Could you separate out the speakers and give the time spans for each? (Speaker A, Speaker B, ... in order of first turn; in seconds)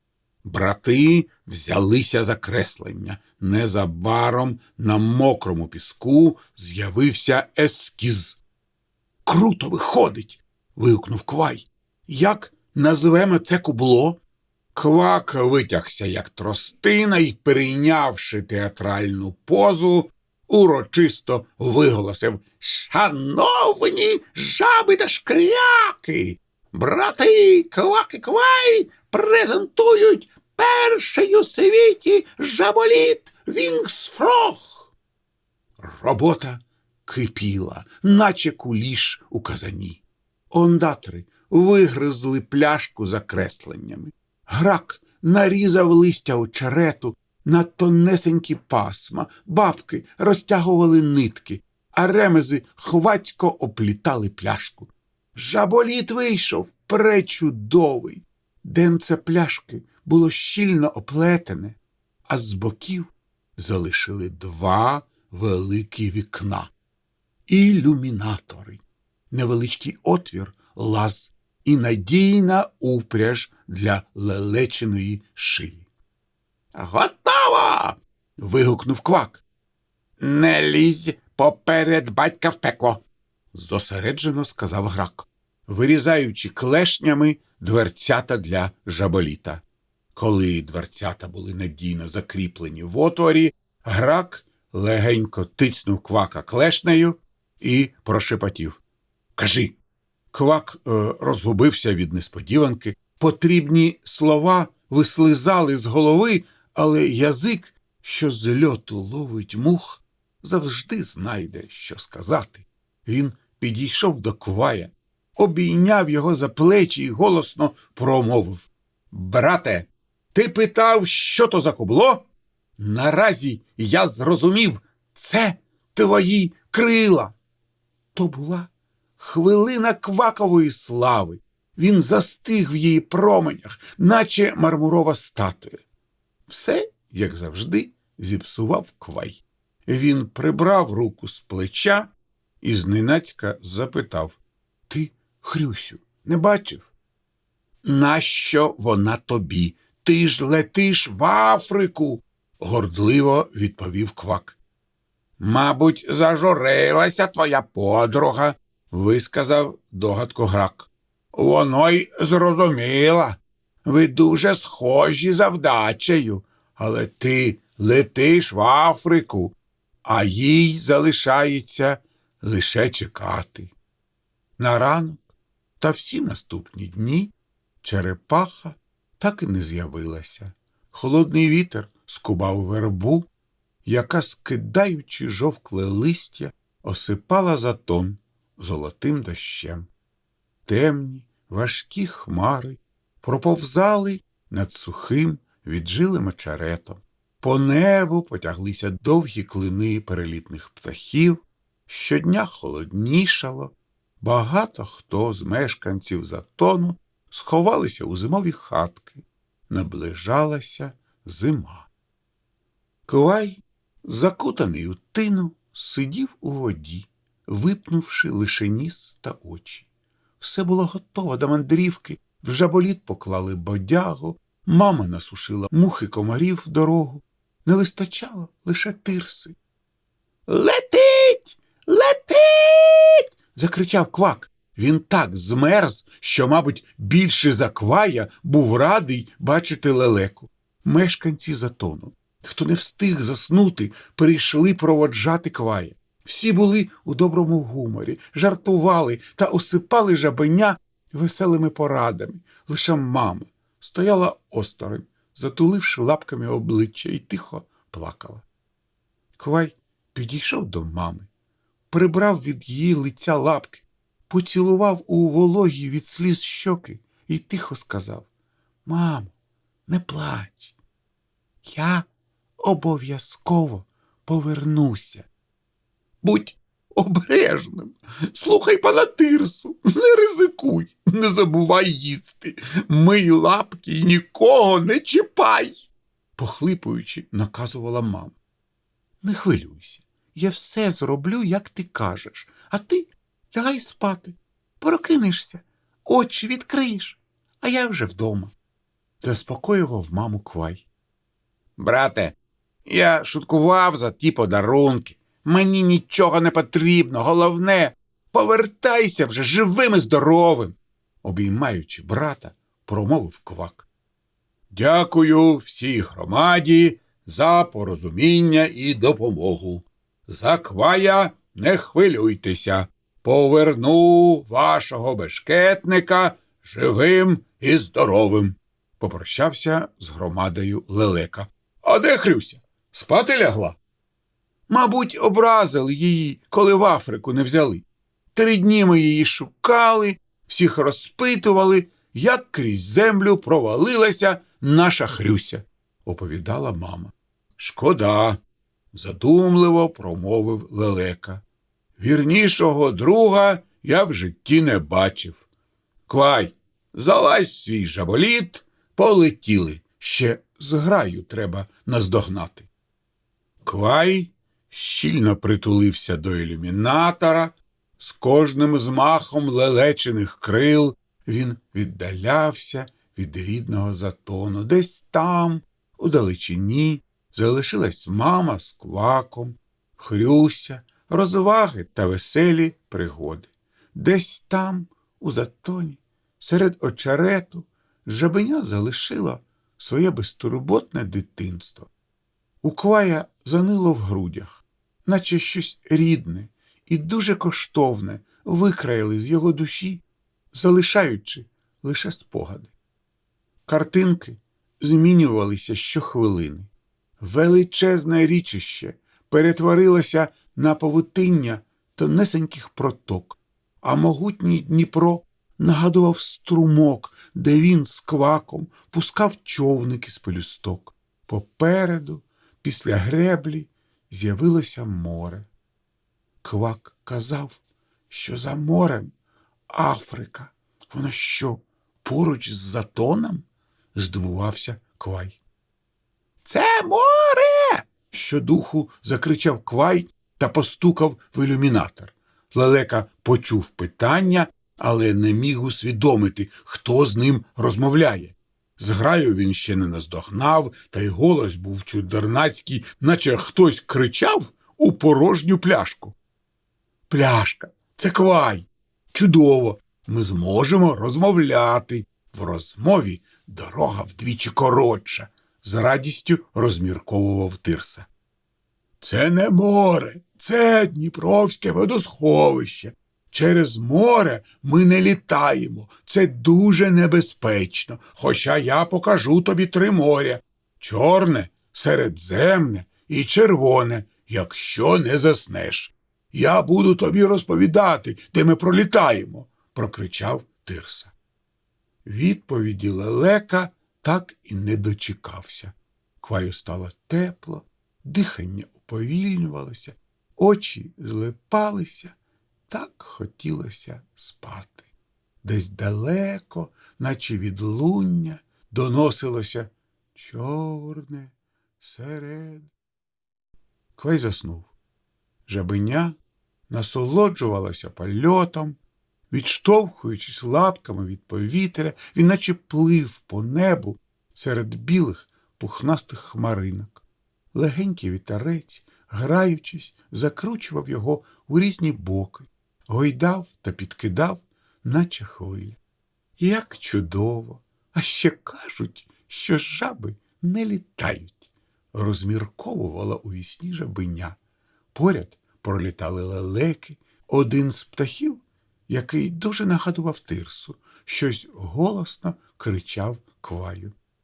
Speaker A: 0.4-8.4, 9.2-14.2, 14.7-34.9, 35.8-40.0, 40.5-61.8, 62.3-66.7, 67.5-75.8, 76.7-79.4, 80.2-89.6, 90.1-98.8, 99.4-99.8, 100.3-122.3, 122.8-127.3, 128.1-135.8, 136.5-142.1, 142.6-144.4, 144.9-146.9, 147.8-154.6, 155.4-169.5, 170.1-173.7, 174.6-175.2, 175.8-177.3, 177.8-183.3, 183.8-189.9, 190.7-211.9, 213.1-219.9, 220.4-229.5, 230.5-258.4, 259.4-261.3, 261.9-268.3, 268.8-269.3, 269.9-270.7, 271.6-272.1, 272.6-275.3, 276.2-288.4, 289.2-298.5, 299.2-300.9, 301.8-313.9, 314.7-333.8, 334.7-348.4, 348.9-351.4, 352.0-355.4, 356.1-362.7, 363.6-391.9, 392.6-400.0, 400.5-402.7, 403.6-425.5, 426.4-429.1, 429.7-435.4, 436.4-456.1, 457.1-468.1, 469.0-491.1, 492.0-502.1, 502.7-504.9, 505.4-512.7, 514.0-514.7, 515.5-516.2, 516.7-518.8, 519.3-527.0, 527.5-535.8, 536.4-544.4, 544.9-553.9